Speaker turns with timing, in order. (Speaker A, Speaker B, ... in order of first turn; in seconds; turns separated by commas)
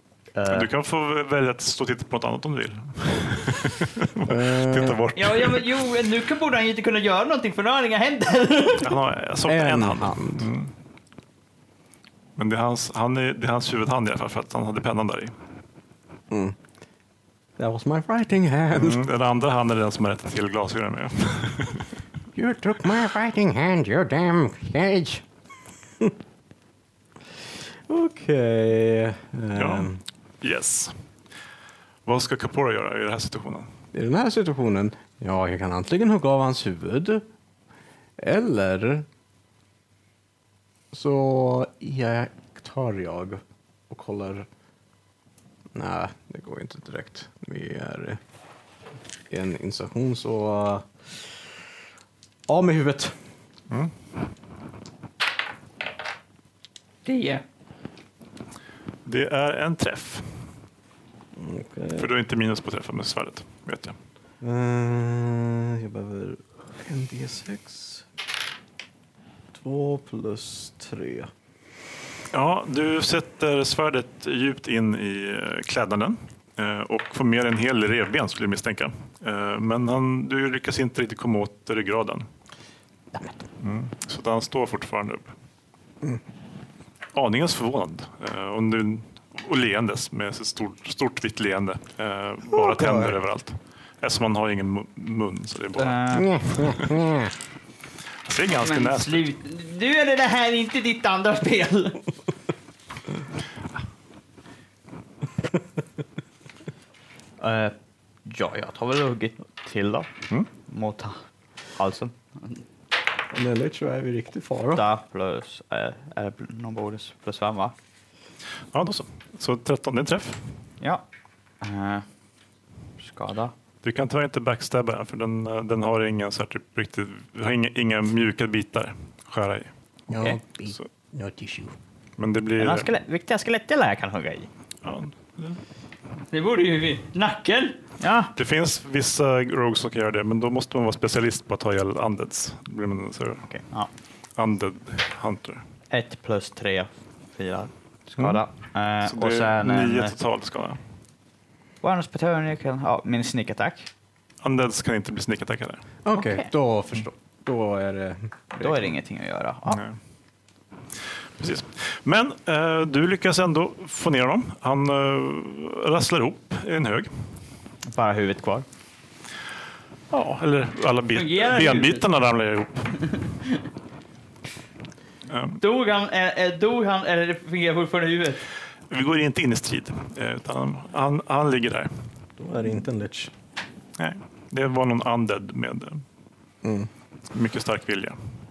Speaker A: 0.3-0.7, Speaker B: 0.5-5.7, Speaker C: 4.2-5.0, Speaker D: 5.1-8.9, Speaker B: 8.8-10.7, Speaker C: 9.5-10.5, Speaker B: 12.4-15.3, Speaker C: 16.3-16.6, Speaker C: 17.6-19.1, Speaker B: 18.7-21.9, Speaker C: 22.3-25.2, Speaker C: 27.9-30.0, Speaker B: 29.6-30.9, Speaker B: 32.0-33.7, Speaker C: 33.9-37.2, Speaker C: 38.2-39.1, Speaker C: 40.9-44.5, Speaker C: 45.7-48.2, Speaker C: 49.3-50.9, Speaker C: 52.5-53.2, Speaker D: 57.0-57.4, Speaker B: 59.0-60.3, Speaker C: 61.4-62.1, Speaker B: 62.0-64.0, Speaker C: 64.4-68.0, Speaker C: 69.5-71.3, Speaker B: 72.3-82.3, Speaker B: 83.6-85.3, Speaker B: 87.1-97.0, Speaker C: 92.5-93.2, Speaker A: 95.8-96.5, Speaker C: 96.1-97.3, Speaker B: 98.2-99.2, Speaker D: 98.6-102.0, Speaker A: 107.4-107.7, Speaker A: 108.2-110.1, Speaker A: 110.6-111.2, Speaker A: 111.8-112.1, Speaker C: 113.3-114.8, Speaker A: 114.7-117.7, Speaker B: 118.7-120.4, Speaker A: 121.6-122.0, Speaker A: 123.0-123.5, Speaker B: 123.8-129.7, Speaker C: 130.1-131.7, Speaker B: 132.2-132.9, Speaker A: 132.6-134.5, Speaker B: 134.8-135.6, Speaker D: 136.3-137.8, Speaker A: 138.0-138.3, Speaker B: 138.4-143.4, Speaker A: 143.5-143.9, Speaker B: 144.4-145.6, Speaker A: 145.9-150.1, Speaker B: 149.0-150.8, Speaker A: 151.8-153.9, Speaker B: 154.4-155.8, Speaker C: 156.0-158.9, Speaker A: 156.1-156.4, Speaker A: 158.6-159.8, Speaker B: 159.7-160.0, Speaker B: 161.4-167.1, Speaker A: 167.9-168.7, Speaker B: 170.1-173.1, Speaker D: 171.1-172.0, Speaker B: 175.3-175.6, Speaker D: 175.6-178.4, Speaker B: 178.9-181.9, Speaker C: 182.4-183.3, Speaker B: 184.0-186.0, Speaker C: 186.6-186.9, Speaker B: 187.3-188.2